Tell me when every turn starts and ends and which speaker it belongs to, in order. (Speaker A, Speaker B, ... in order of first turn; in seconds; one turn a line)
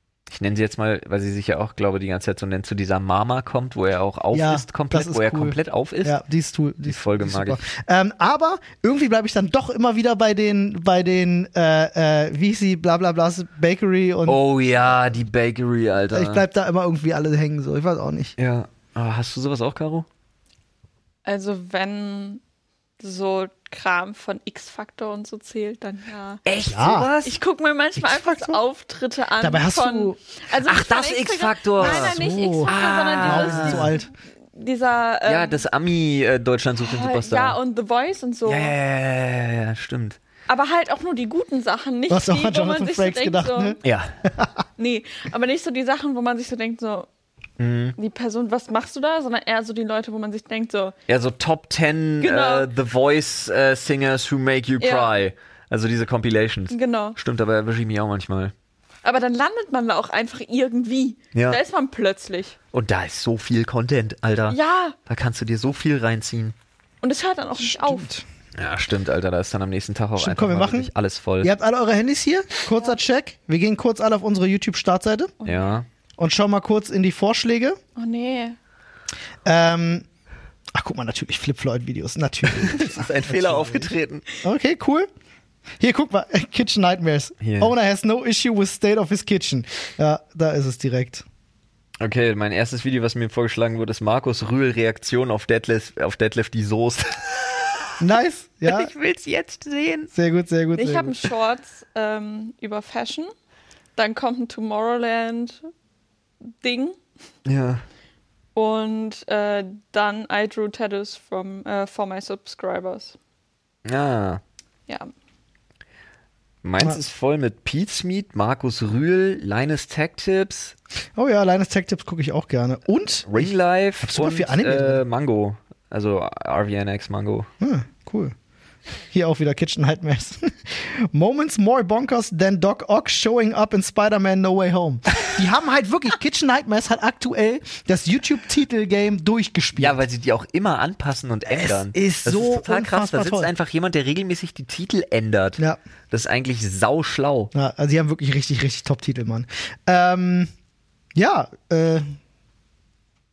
Speaker A: 0.3-6.2
Speaker B: 4.3-14.4
Speaker A: 6.8-7.6
Speaker A: 14.2-16.4
Speaker B: 16.1-18.3
Speaker A: 18.4-20.1
Speaker C: 21.2-22.4
Speaker C: 23.0-26.4
Speaker A: 26.4-27.4
Speaker B: 26.6-27.1
Speaker C: 27.2-34.0
Speaker B: 27.9-28.6
Speaker B: 29.4-30.2
Speaker A: 30.6-33.9
Speaker B: 31.8-34.1
Speaker C: 34.5-35.6
Speaker A: 35.2-37.6
Speaker C: 36.8-38.7
Speaker A: 38.5-40.2
Speaker C: 40.5-43.8
Speaker B: 42.1-44.5
Speaker A: 43.8-44.2
Speaker C: 44.8-47.1
Speaker A: 47.6-48.0
Speaker C: 48.0-50.9
Speaker A: 51.1-58.5
Speaker C: 52.2-52.7
Speaker C: 54.8-55.1
Speaker C: 56.7-57.2
Speaker C: 59.0-62.5
Speaker A: 61.3-61.6
Speaker A: 62.7-66.5
Speaker C: 64.5-65.0
Speaker C: 67.0-68.1
Speaker B: 67.6-68.2
Speaker A: 68.6-71.5
Speaker B: 70.2-70.9
Speaker B: 71.4-75.3
Speaker C: 75.4-75.8
Speaker A: 75.4-75.8
Speaker B: 76.2-77.8
Speaker C: 78.0-78.6
Speaker B: 79.4-80.0
Speaker B: 80.7-83.9
Speaker A: 82.5-84.2
Speaker B: 84.4-85.1
Speaker B: 85.8-91.2
Speaker A: 87.4-87.7
Speaker A: 92.0-98.0
Speaker B: 98.0-98.9
Speaker A: 98.6-100.1
Speaker B: 100.1-101.3
Speaker C: 100.8-103.3
Speaker C: 104.0-105.6
Speaker C: 106.6-107.0
Speaker A: 107.4-107.8
Speaker C: 108.5-113.2
Speaker A: 113.8-114.4
Speaker A: 116.6-120.7
Speaker B: 121.2-125.0
Speaker A: 123.2-127.5
Speaker B: 127.6-128.3
Speaker B: 129.1-140.0
Speaker A: 139.8-147.5
Speaker B: 141.5-143.5
Speaker B: 147.5-150.5
Speaker B: 151.1-152.2